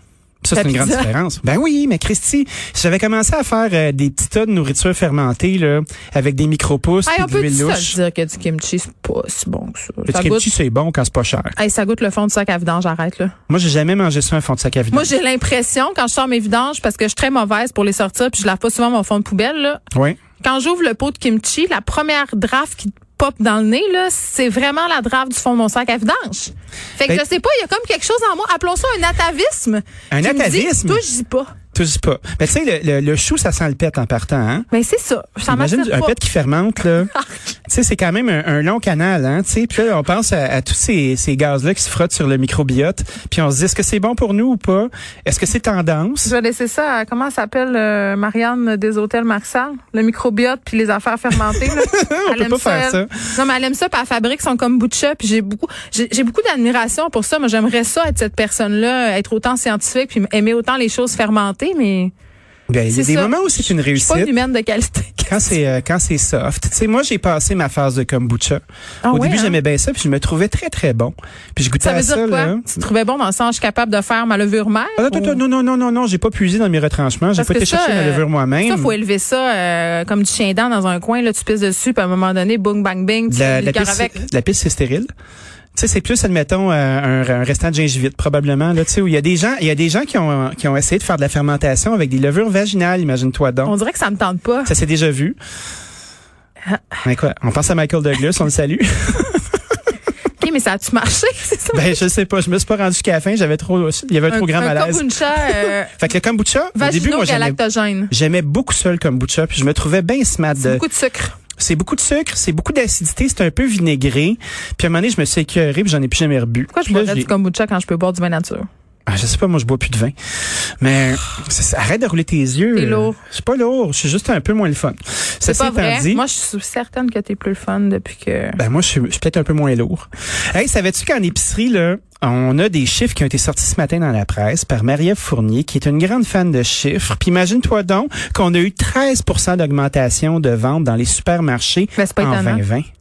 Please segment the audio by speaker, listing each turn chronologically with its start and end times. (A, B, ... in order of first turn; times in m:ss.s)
0:00.4-0:08.0 A
0:00.6-0:01.1 B
0:07.0-0:10.5 B
0:10.1-0:11.6 A
0:11.6-0:13.3 B
0:13.5-0:15.1 A
0:14.9-0:19.8 B
0:19.9-0:20.2 A
0:20.4-0:31.6 B
0:30.1-0:31.0 A
0:31.7-0:34.7 A
0:34.7-0:36.2 B
0:35.5-0:37.1 A
0:37.7-0:46.3 A
0:46.2-1:02.1 B
0:51.5-0:53.2 A
1:02.7-1:04.3 A
1:02.9-1:05.6 B
1:05.3-1:12.7 A
1:09.0-1:09.6 B
1:11.8-1:15.4 B
1:15.0-1:18.9 A
1:17.4-1:24.2 B
1:23.3-1:25.1 A
1:25.8-1:33.7 A
1:33.6-1:34.7 B
1:34.6-1:35.4 A
1:37.0-1:39.6 A
1:40.4-1:42.0 B
1:41.7-1:47.6 A
1:44.3-1:45.9 B
1:46.8-1:48.1 B
1:48.1-1:50.8 A
1:50.6-1:51.4 B
1:51.6-1:57.3 A
1:56.7-1:58.7 B
1:59.1-2:00.2 A
2:00.8-2:06.2 A
2:02.7-2:03.2 B
2:05.5-2:08.6 B
2:08.6-2:22.9 A
2:22.0-2:22.6 B